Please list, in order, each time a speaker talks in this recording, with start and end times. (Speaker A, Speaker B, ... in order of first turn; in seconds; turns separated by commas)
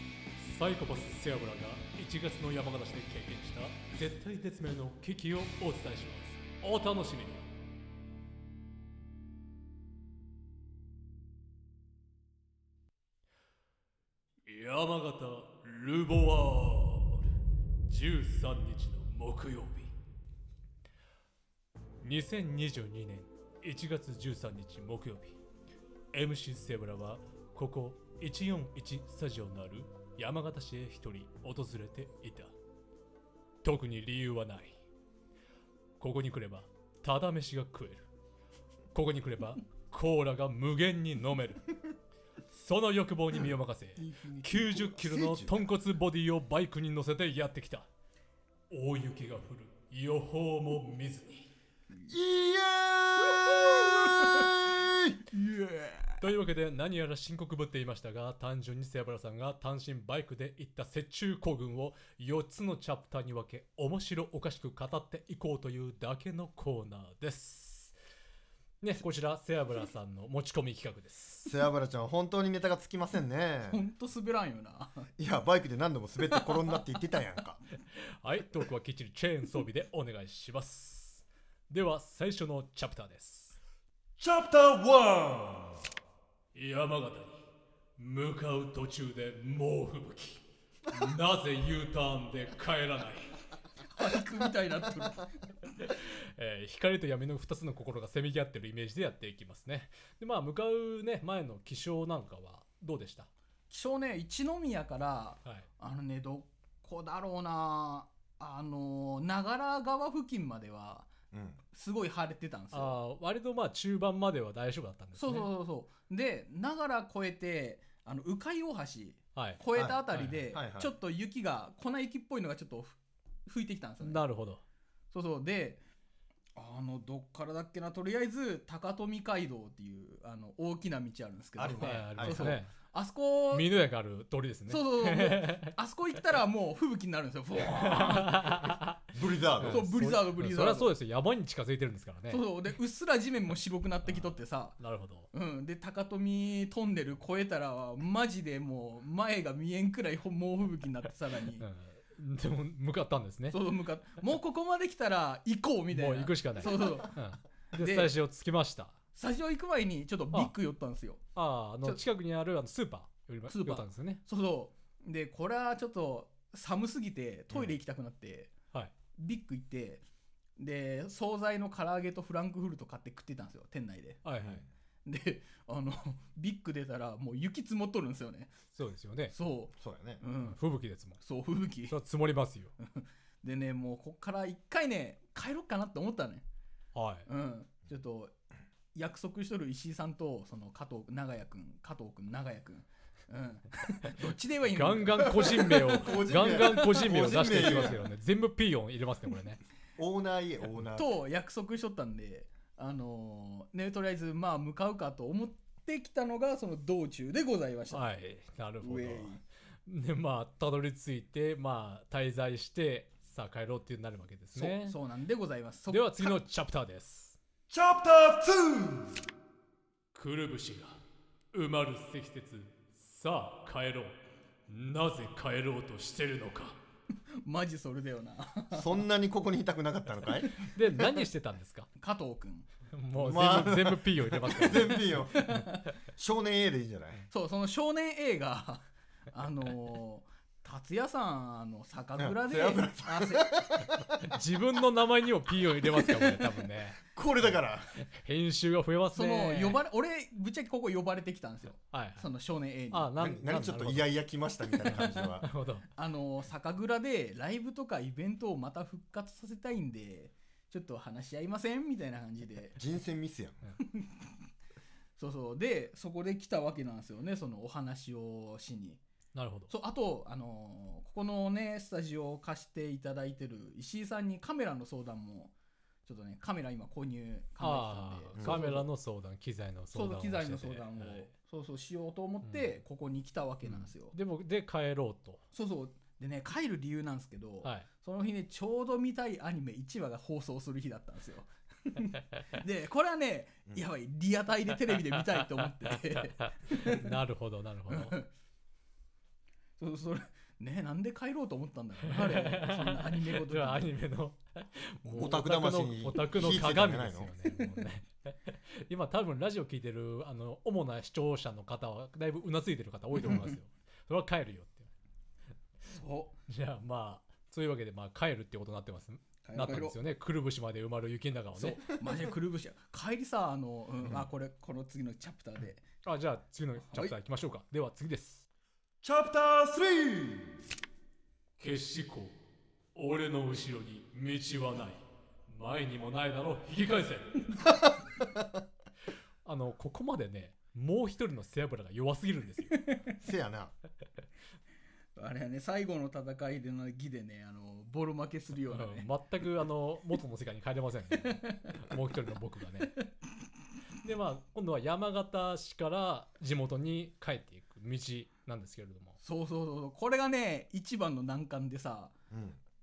Speaker A: 0.4-7.5, Speaker A: 14.4-17.3, Speaker A: 17.8-19.9, Speaker A: 22.0-25.4, Speaker A: 26.1-32.5, Speaker A: 33.6-34.8, Speaker A: 36.0-38.0, Speaker A: 38.9-41.7, Speaker A: 42.5-47.9, Speaker B: 44.0-44.8, Speaker C: 44.8-45.6, Speaker A: 48.7-51.5, Speaker C: 52.1-55.2, Speaker B: 53.8-54.5, Speaker B: 55.3-56.2, Speaker A: 56.2-67.9, Speaker A: 68.8-71.5, Speaker C: 71.5-73.8, Speaker B: 73.7-75.1, Speaker C: 75.2-77.6, Speaker A: 78.2-83.6, Speaker C: 84.2-85.8, Speaker A: 86.5-87.3, Speaker A: 88.0-93.3, Speaker B: 93.9-95.3, Speaker A: 95.8-103.3, Speaker B: 103.7-111.1, Speaker C: 111.3-111.6, Speaker B: 111.7-113.0, Speaker A: 112.7-115.5, Speaker B: 115.2-124.2, Speaker A: 119.3-119.6, Speaker C: 119.7-120.0, Speaker A: 120.1-120.4, Speaker C: 120.5-120.9, Speaker A: 124.0-124.6, Speaker B: 125.1-125.8, Speaker B: 126.5-133.7, Speaker C: 131.6-132.5, Speaker A: 131.8-132.7, Speaker A: 133.5-135.7, Speaker B: 134.7-138.8, Speaker A: 137.6-139.0, Speaker C: 139.1-139.8, Speaker A: 139.6-142.4, Speaker B: 139.6-140.9, Speaker B: 142.3-144.8, Speaker A: 144.1-145.3, Speaker B: 145.3-151.6, Speaker A: 151.6-153.6, Speaker B: 153.5-157.2, Speaker A: 155.9-158.9, Speaker B: 157.7-158.1, Speaker B: 159.1-161.2, Speaker A: 161.3-164.2, Speaker B: 163.5-168.5, Speaker B: 169.2-170.0, Speaker B: 170.6-174.2, Speaker A: 174.2-174.7, Speaker B: 175.1-178.6, Speaker A: 178.7-179.3, Speaker B: 179.3-180.6, Speaker C: 179.8-180.2, Speaker A: 180.4-181.2, Speaker B: 181.2-181.9, Speaker A: 181.9-182.7, Speaker B: 182.8-186.4, Speaker A: 186.9-187.3, Speaker B: 187.3-188.3, Speaker B: 188.9-196.0, Speaker A: 194.7-199.6, Speaker C: 195.4-198.0, Speaker C: 200.0-201.1, Speaker B: 200.9-208.0, Speaker A: 207.9-214.9, Speaker B: 208.8-209.4, Speaker B: 214.5-216.4, Speaker A: 215.9-217.4, Speaker C: 217.7-219.2, Speaker A: 220.1-221.0, Speaker A: 221.5-226.8, Speaker B: 227.4-229.0, Speaker C: 228.7-230.6, Speaker A: 230.6-231.9, Speaker B: 232.0-232.7, Speaker A: 232.9-235.2, Speaker C: 233.2-235.5, Speaker B: 235.3-235.9, Speaker C: 236.2-237.2, Speaker B: 237.3-243.6, Speaker C: 242.2-244.4, Speaker A: 244.3-247.0, Speaker B: 245.9-246.4, Speaker C: 247.2-247.9, Speaker A: 248.1-249.8, Speaker B: 249.1-253.1, Speaker A: 251.9-252.3, Speaker A: 252.9-254.1, Speaker C: 253.2-255.5, Speaker A: 254.8-255.8, Speaker B: 255.9-262.8, Speaker C: 262.8-263.6, Speaker B: 263.8-264.3, Speaker B: 265.2-269.0, Speaker A: 269.3-269.7, Speaker B: 269.7-275.5, Speaker B: 276.1-278.9, Speaker A: 277.6-281.3, Speaker B: 279.9-284.1, Speaker A: 283.6-285.4, Speaker B: 285.5-297.1, Speaker A: 296.7-298.1, Speaker B: 297.9-298.3, Speaker B: 299.8-303.9, Speaker A: 302.1-314.9, Speaker C: 305.1-307.3, Speaker B: 313.2-313.6, Speaker B: 315.9-316.3, Speaker A: 316.5-321.8, Speaker B: 319.4-319.9, Speaker B: 321.5-325.8, Speaker A: 326.0-328.4, Speaker B: 326.9-327.1, Speaker C: 329.0-330.6, Speaker A: 331.6-332.3, Speaker A: 332.9-337.6, Speaker A: 339.4-342.8, Speaker C: 343.2-343.7, Speaker B: 345.2-349.1, Speaker A: 348.7-353.0, Speaker B: 351.3-351.7, Speaker A: 354.0-359.1, Speaker B: 359.2-362.1, Speaker C: 362.3-362.6